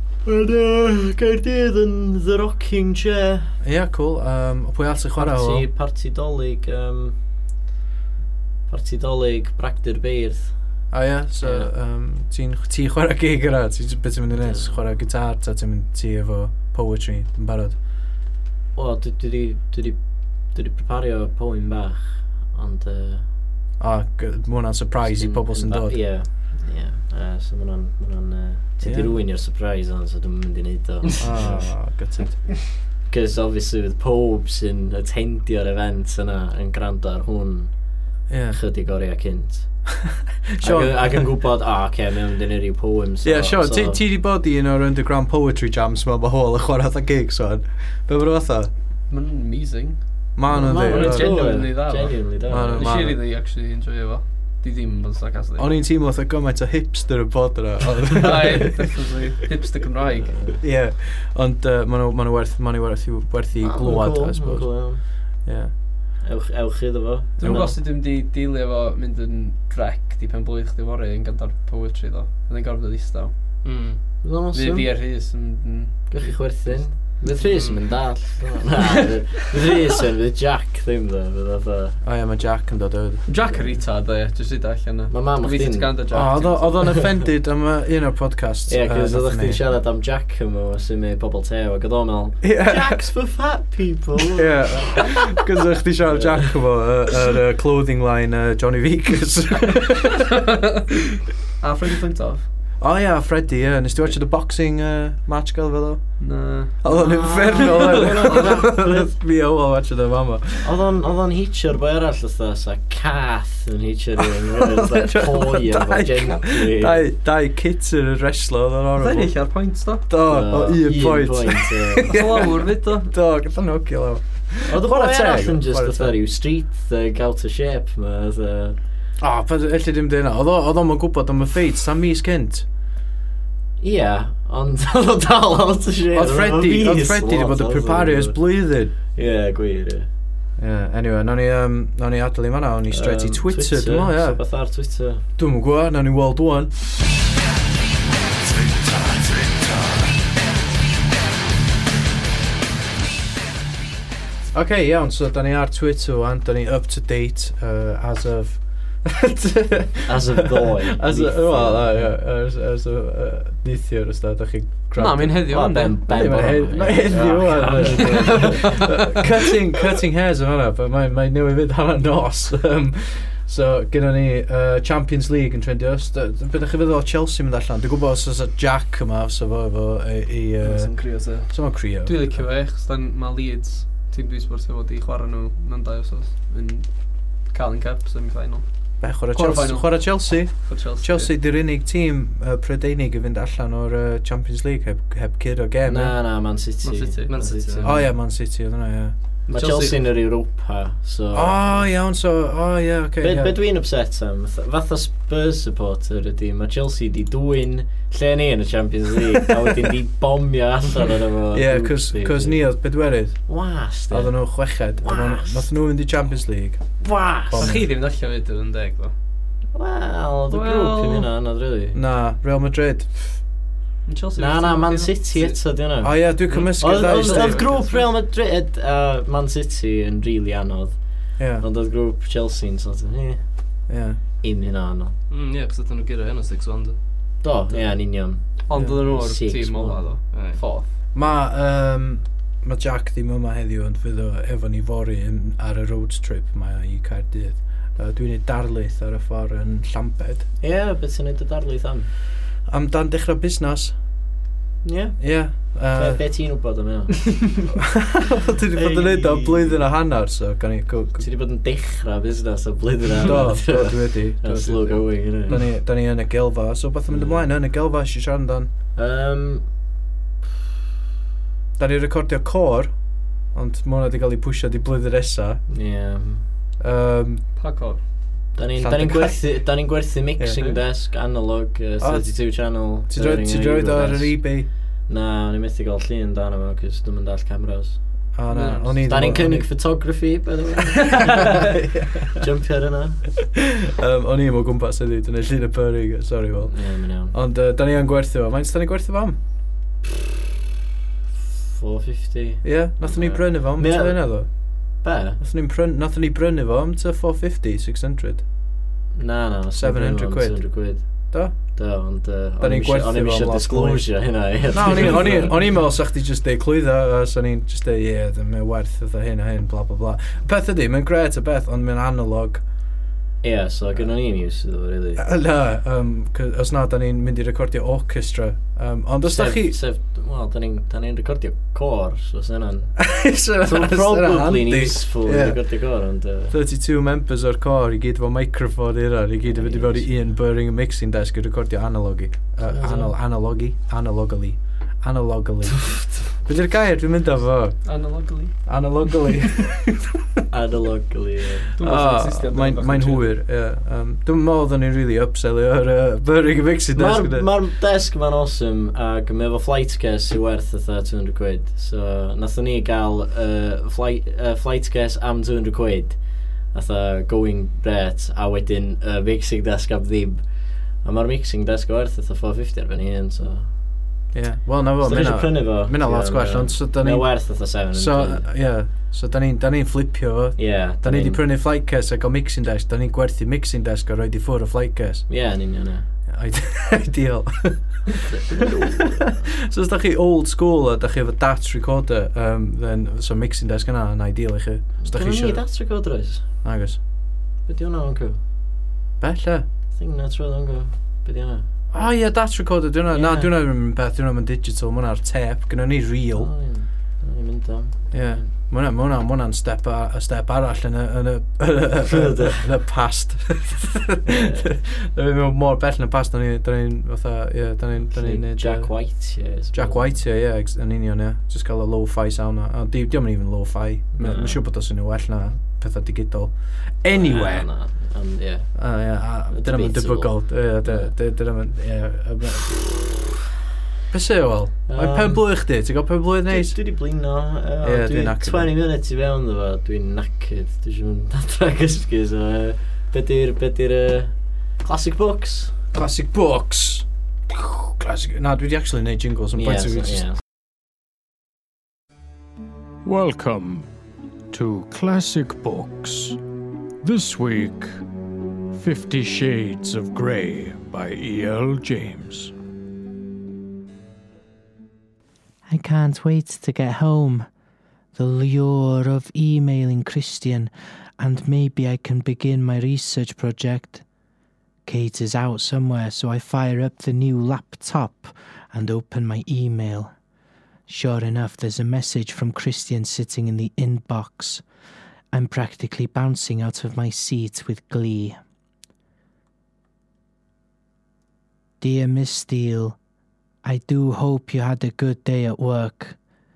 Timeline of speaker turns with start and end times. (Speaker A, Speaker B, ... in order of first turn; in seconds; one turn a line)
Speaker A: 0.2-3.5
Speaker B: 3.6-5.7
Speaker A: 5.2-7.2
Speaker A: 8.7-10.5
Speaker B: 10.9-17.8
Speaker A: 11.4-11.7
Speaker A: 14.3-14.7
Speaker A: 18.7-20.0
Speaker A: 20.5-23.2
Speaker B: 23.8-26.0
Speaker A: 25.0-31.7
Speaker B: 28.8-29.1
Speaker B: 31.2-32.5
Speaker A: 33.1-37.7
Speaker B: 38.3-38.6
Speaker A: 38.5-39.7
Speaker B: 40.5-41.3
Speaker A: 40.6-44.0
Speaker B: 43.2-48.7
Speaker C: 49.1-55.7
Speaker B: 50.4-51.3
Speaker A: 50.5-52.9
Speaker B: 52.5-53.2
Speaker B: 55.6-59.0
Speaker C: 58.1-60.6
Speaker A: 60.3-60.6
Speaker B: 60.6-65.7
Speaker A: 63.6-65.0
Speaker A: 66.2-67.8
Speaker C: 67.4-73.3
Speaker B: 67.4-67.7
Speaker D: 73.6-74.0
Speaker A: 74.2-74.9
Speaker C: 74.5-76.8
Speaker A: 76.1-82.0
Speaker D: 77.4-77.9
Speaker B: 82.0-83.2
Speaker C: 83.2-87.1
Speaker A: 83.4-83.8
Speaker A: 85.1-86.1
Speaker B: 86.1-89.6
Speaker A: 88.7-95.2
Speaker B: 92.4-93.0
Speaker B: 94.3-100.2
Speaker A: 96.0-96.5
Speaker C: 101.6-102.5
Speaker B: 102.8-110.8
Speaker C: 106.2-108.6
Speaker A: 106.9-109.2
Speaker A: 110.6-117.0
Speaker B: 114.6-119.3
Speaker C: 119.0-120.1
Speaker B: 120.1-126.1
Speaker A: 120.2-122.1
Speaker C: 122.1-123.1
Speaker A: 124.7-128.8
Speaker B: 129.2-132.7
Speaker A: 133.8-140.1
Speaker B: 136.1-138.9
Speaker B: 140.6-144.4
Speaker A: 142.9-145.2
Speaker B: 145.4-146.7
Speaker B: 154.5-182.2
Speaker A: 160.1-162.2
Speaker C: 164.9-166.5
Speaker A: 165.4-168.9
Speaker C: 167.4-168.9
Speaker C: 180.6-191.3
Speaker B: 189.0-196.2
Speaker A: 195.8-198.1
Speaker C: 196.8-197.4
Speaker D: 197.3-197.9
Speaker B: 197.8-199.1
Speaker C: 199.5-200.1
Speaker A: 199.5-201.6
Speaker B: 201.3-203.6
Speaker A: 203.2-212.6
Speaker B: 211.5-213.4
Speaker A: 213.5-215.7
Speaker B: 214.1-216.8
Speaker A: 217.0-217.7
Speaker B: 217.5-217.9
Speaker C: 217.6-219.1
Speaker A: 219.7-222.0
Speaker C: 220.5-221.3
Speaker B: 221.9-223.1
Speaker C: 224.1-225.6
Speaker A: 224.3-233.4
Speaker B: 226.0-227.7
Speaker C: 226.5-228.1
Speaker B: 231.4-231.6
Speaker B: 233.9-234.2
Speaker A: 234.4-235.1
Speaker D: 235.3-236.9
Speaker A: 237.4-240.0
Speaker C: 238.7-240.9
Speaker B: 238.7-239.0
Speaker D: 240.3-240.6
Speaker B: 241.1-250.5
Speaker A: 250.6-252.1
Speaker B: 252.7-254.0
Speaker A: 254.8-257.7
Speaker B: 255.2-256.2
Speaker B: 258.0-261.2
Speaker A: 258.7-259.8
Speaker A: 261.2-265.6
Speaker B: 263.2-268.7
Speaker A: 267.1-267.5
Speaker A: 268.9-269.6
Speaker B: 271.8-272.9
Speaker B: 273.5-275.6
Speaker A: 275.7-276.4
Speaker B: 276.8-277.4
Speaker C: 277.6-278.0
Speaker A: 278.5-284.4
Speaker B: 278.8-279.4
Speaker B: 280.4-280.8
Speaker B: 282.0-284.7
Speaker A: 285.1-288.0
Speaker B: 288.4-289.7
Speaker C: 288.5-289.0
Speaker A: 289.0-291.4
Speaker C: 291.1-291.4
Speaker B: 291.8-292.3
Speaker A: 292.3-293.2
Speaker B: 293.6-299.4
Speaker A: 296.6-297.3
Speaker A: 301.7-304.3
Speaker B: 302.6-304.5
Speaker A: 305.0-305.4
Speaker B: 305.4-308.4
Speaker A: 309.1-315.5
Speaker B: 309.8-311.6
Speaker B: 312.6-322.6
Speaker A: 323.4-325.2
Speaker B: 325.2-329.8
Speaker A: 329.2-333.0
Speaker B: 333.0-335.6
Speaker A: 333.6-336.5
Speaker B: 336.5-348.0
Speaker A: 339.4-340.2
Speaker A: 342.6-343.1
Speaker A: 345.8-346.2
Speaker C: 347.8-348.6
Speaker B: 348.6-350.1
Speaker A: 350.5-351.7
Speaker C: 351.8-353.3
Speaker B: 351.8-357.5
Speaker A: 356.9-373.7
Speaker B: 374.3-385.3
Speaker A: 375.0-378.5
Speaker A: 380.6-381.4
Speaker A: 385.3-386.1
Speaker B: 386.3-388.1
Speaker A: 388.2-389.4
Speaker B: 388.9-395.6
Speaker A: 395.0-396.5
Speaker B: 396.6-397.0
Speaker A: 397.7-398.4
Speaker B: 399.2-399.6
Speaker A: 399.9-401.6
Speaker B: 401.9-406.5
Speaker A: 403.1-403.5
Speaker A: 406.4-408.5
Speaker B: 408.1-418.9
Speaker A: 412.1-412.6
Speaker A: 414.2-414.6
Speaker A: 418.0-420.2
Speaker B: 419.7-427.7
Speaker A: 424.1-424.6
Speaker A: 427.1-428.7
Speaker B: 428.8-432.8
Speaker A: 429.5-431.1
Speaker B: 434.1-436.8
Speaker A: 434.9-435.4
Speaker A: 436.5-445.7
Speaker B: 437.8-438.7
Speaker B: 445.9-450.3
Speaker A: 449.6-450.4
Speaker E: 453.0-453.9
Speaker E: 454.5-456.4
Speaker E: 457.0-458.0
Speaker E: 458.7-462.5
Speaker F: 465.6-467.5
Speaker F: 468.1-474.0
Speaker F: 474.9-480.1
Speaker F: 480.9-484.6
Speaker F: 485.3-488.4
Speaker F: 491.8-493.0
Speaker F: 493.6-496.2